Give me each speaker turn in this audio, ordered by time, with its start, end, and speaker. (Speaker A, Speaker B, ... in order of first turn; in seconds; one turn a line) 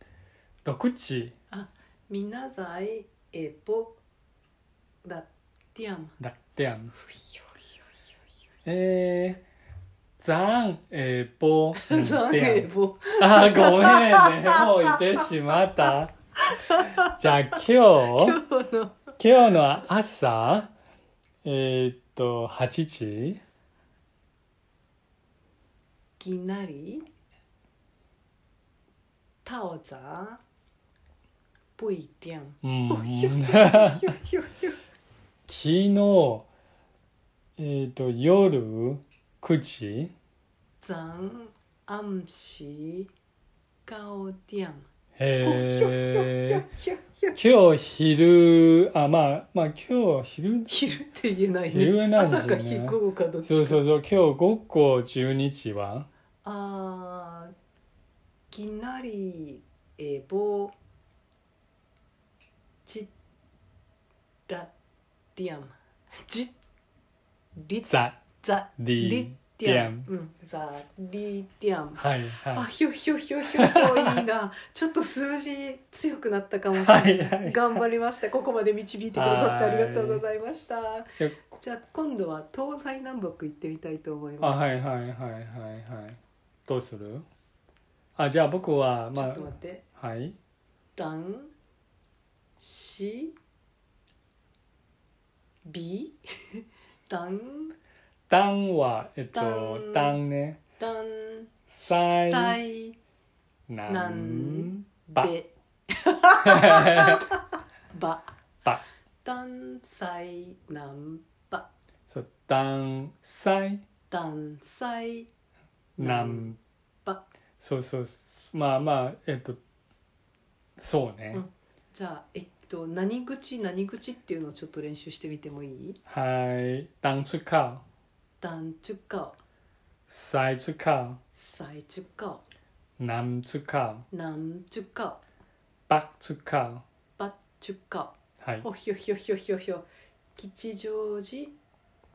Speaker A: 0.7-1.3
Speaker B: 1.5-4.0
Speaker B: 5.0-6.2
Speaker A: 6.2-6.9
Speaker B: 7.0-7.6
Speaker A: 8.7-9.4
Speaker A: 10.2-16.1
Speaker B: 11.8-14.9
Speaker B: 16.5-17.2
Speaker A: 17.0-18.4
Speaker B: 18.1-19.1
Speaker A: 19.2-20.7
Speaker A: 21.4-23.4
Speaker B: 26.2-27.1
Speaker B: 29.4-30.4
Speaker B: 31.8-34.8
Speaker A: 32.6-34.1
Speaker A: 35.5-36.5
Speaker A: 37.6-40.1
Speaker B: 40.8-43.1
Speaker B: 43.9-44.9
Speaker A: 45.2-46.7
Speaker B: 45.4-47.4
Speaker A: 47.4-50.8
Speaker B: 50.7-53.8
Speaker A: 51.7-56.1
Speaker B: 56.4-57.5
Speaker B: 58.5-60.7
Speaker B: 62.9-63.1
Speaker B: 65.4-66.5
Speaker B: 67.6-84.7
Speaker A: 67.9-68.2
Speaker A: 68.8-70.1
Speaker A: 72.0-72.7
Speaker A: 73.5-74.2
Speaker A: 76.8-77.8
Speaker A: 79.1-80.2
Speaker A: 81.2-81.6
Speaker A: 84.4-87.3
Speaker A: 88.2-90.4
Speaker B: 89.1-89.8
Speaker B: 91.0-91.5
Speaker B: 92.6-93.3
Speaker B: 95.7-97.8
Speaker A: 98.3-100.6
Speaker B: 99.3-100.2
Speaker B: 100.8-103.0
Speaker A: 101.7-102.6
Speaker A: 103.7-105.3
Speaker B: 103.9-108.3
Speaker A: 106.4-107.3
Speaker B: 109.2-111.7
Speaker A: 112.1-113.8
Speaker B: 114.1-115.3
Speaker B: 116.0-116.5
Speaker A: 116.0-116.6
Speaker A: 117.6-119.6
Speaker A: 120.8-121.4
Speaker B: 121.3-126.0
Speaker A: 126.1-127.8
Speaker B: 128.4-129.4
Speaker A: 130.1-131.2
Speaker B: 131.3-132.4
Speaker A: 133.0-134.1
Speaker B: 134.1-135.2
Speaker A: 135.9-136.8
Speaker B: 137.2-139.8
Speaker A: 138.4-138.7
Speaker B: 140.4-141.5